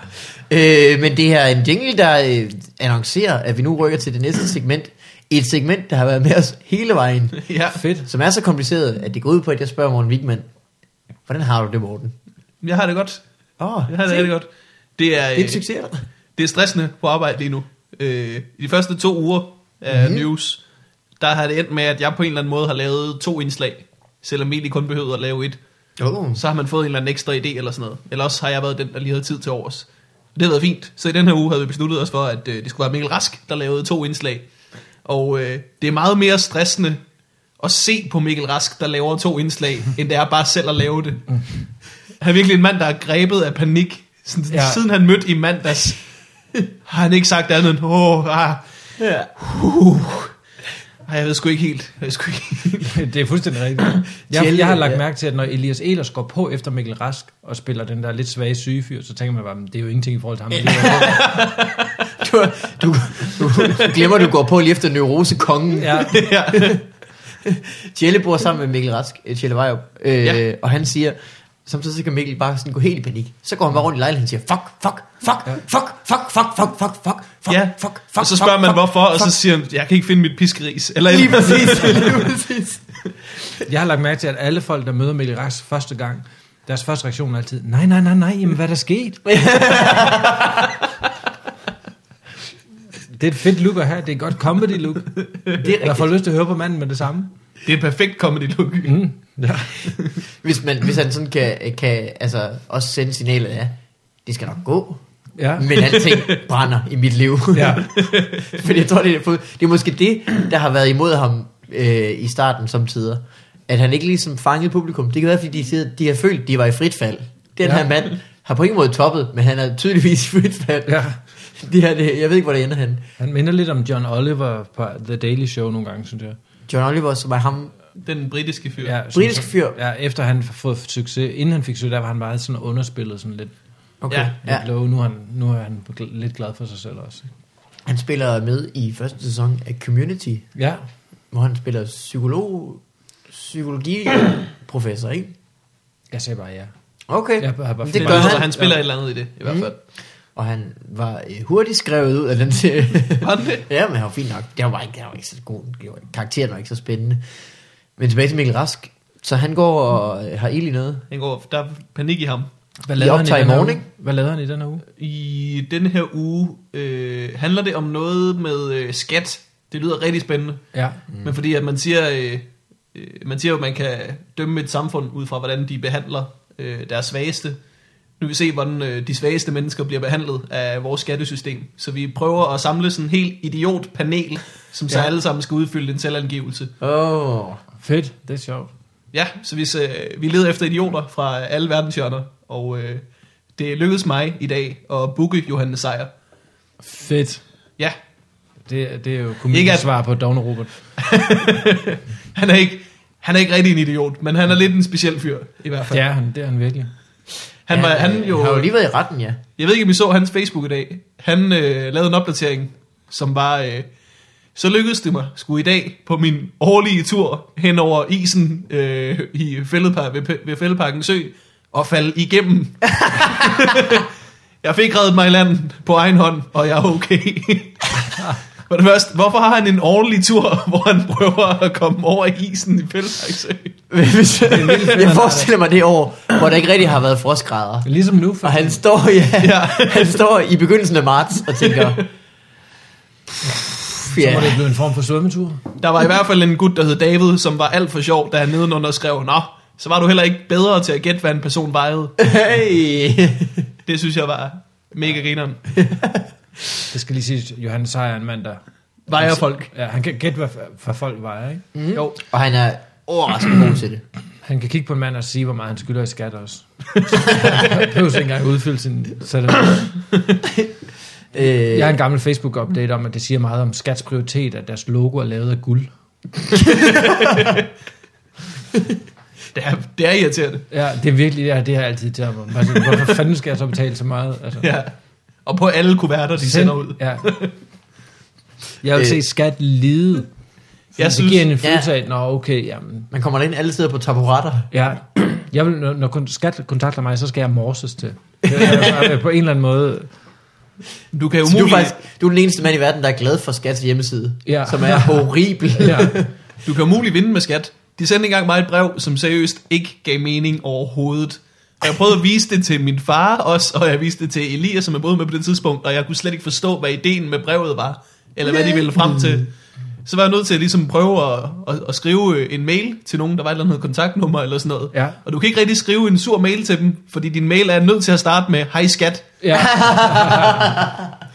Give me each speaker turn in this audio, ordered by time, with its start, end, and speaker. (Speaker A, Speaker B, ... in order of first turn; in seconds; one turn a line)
Speaker A: 0.4-7.5
Speaker B: 7.4-7.8
Speaker C: 7.7-8.1
Speaker A: 8.0-10.5
Speaker A: 11.3-12.1
Speaker B: 12.6-13.2
Speaker A: 13.6-14.3
Speaker B: 13.9-15.6
Speaker A: 15.3-16.0
Speaker B: 16.4-20.6
Speaker A: 19.9-20.3
Speaker B: 21.2-25.6
Speaker A: 26.0-26.4
Speaker B: 26.3-34.5
Speaker B: 35.0-37.0
Speaker B: 37.6-41.2
Speaker C: 41.3-41.6
Speaker B: 42.2-46.0
Speaker C: 44.5-44.8
Speaker B: 46.9-48.6
Speaker A: 49.0-49.3
Speaker B: 49.4-50.3
Speaker B: 51.0-53.0
Speaker C: 52.8-61.4
Speaker A: 54.3-55.0
Speaker A: 60.5-66.8
Speaker B: 61.2-61.8
Speaker C: 65.8-66.3
Speaker B: 66.1-66.8
Speaker A: 67.4-79.3
Speaker B: 77.5-82.3
Speaker A: 81.1-82.9
Speaker C: 83.6-89.3
Speaker A: 89.2-90.8
Speaker C: 93.1-97.3
Speaker A: 95.5-96.1
Speaker B: 97.6-99.0
Speaker C: 98.8-99.9
Speaker B: 99.8-100.2
Speaker A: 100.3-105.0
Speaker C: 105.4-106.0
Speaker A: 105.6-123.0
Speaker B: 106.0-106.4
Speaker C: 107.5-107.9
Speaker B: 107.9-108.6
Speaker C: 120.9-121.2
Speaker C: 123.2-126.4
Speaker A: 126.7-127.7
Speaker B: 128.0-129.0
Speaker C: 128.8-133.5
Speaker A: 129.1-129.8
Speaker A: 134.0-134.7
Speaker C: 134.4-137.3
Speaker A: 137.8-140.5
Speaker C: 140.6-140.8
Speaker A: 141.3-145.3
Speaker C: 146.1-146.7
Speaker A: 147.1-148.5
Speaker C: 147.4-148.8
Speaker B: 147.9-149.8
Speaker A: 149.4-149.7
Speaker A: 150.3-157.2
Speaker B: 153.2-153.6
Speaker A: 158.0-161.1
Speaker B: 161.1-162.5
Speaker C: 162.8-164.8
Speaker A: 163.0-163.8
Speaker B: 165.0-170.6
Speaker C: 170.7-171.0
Speaker B: 171.2-177.6
Speaker B: 178.2-186.7
Speaker A: 186.8-187.6
Speaker C: 187.8-188.7
Speaker B: 189.1-193.0
Speaker B: 193.6-196.1
Speaker C: 196.8-197.4
Speaker C: 198.7-200.7
Speaker B: 199.5-199.9
Speaker B: 201.0-206.0
Speaker C: 205.9-206.9
Speaker B: 207.7-208.7
Speaker A: 207.7-209.4
Speaker B: 209.6-213.9
Speaker B: 214.5-224.1
Speaker B: 224.6-233.7
Speaker A: 233.9-237.9
Speaker C: 234.4-235.5
Speaker C: 237.8-238.8
Speaker A: 238.4-242.0
Speaker B: 239.4-240.2
Speaker B: 241.6-242.0
Speaker A: 243.4-244.6
Speaker C: 244.0-245.6
Speaker B: 245.8-252.1
Speaker A: 252.2-253.7
Speaker B: 253.8-255.6
Speaker A: 255.7-256.8
Speaker C: 256.9-261.6
Speaker B: 259.1-259.7
Speaker A: 261.7-264.0
Speaker C: 264.4-270.0
Speaker A: 271.3-272.0
Speaker C: 271.7-275.9
Speaker A: 276.6-277.5
Speaker B: 276.9-277.6
Speaker B: 279.5-280.7
Speaker C: 280.7-284.7
Speaker B: 284.6-284.9
Speaker B: 285.4-287.5
Speaker C: 286.4-287.3
Speaker C: 288.8-290.3
Speaker A: 288.9-289.2
Speaker B: 291.0-291.5
Speaker C: 291.0-293.1
Speaker A: 291.6-291.9
Speaker A: 293.1-294.7
Speaker C: 294.7-300.1
Speaker A: 298.4-299.1
Speaker B: 301.1-301.9
Speaker A: 301.4-306.3
Speaker C: 304.4-306.2
Speaker B: 306.6-319.5
Speaker A: 318.5-319.4
Speaker B: 320.0-329.3
Speaker C: 324.9-325.2
Speaker C: 329.4-330.7
Speaker A: 329.5-331.1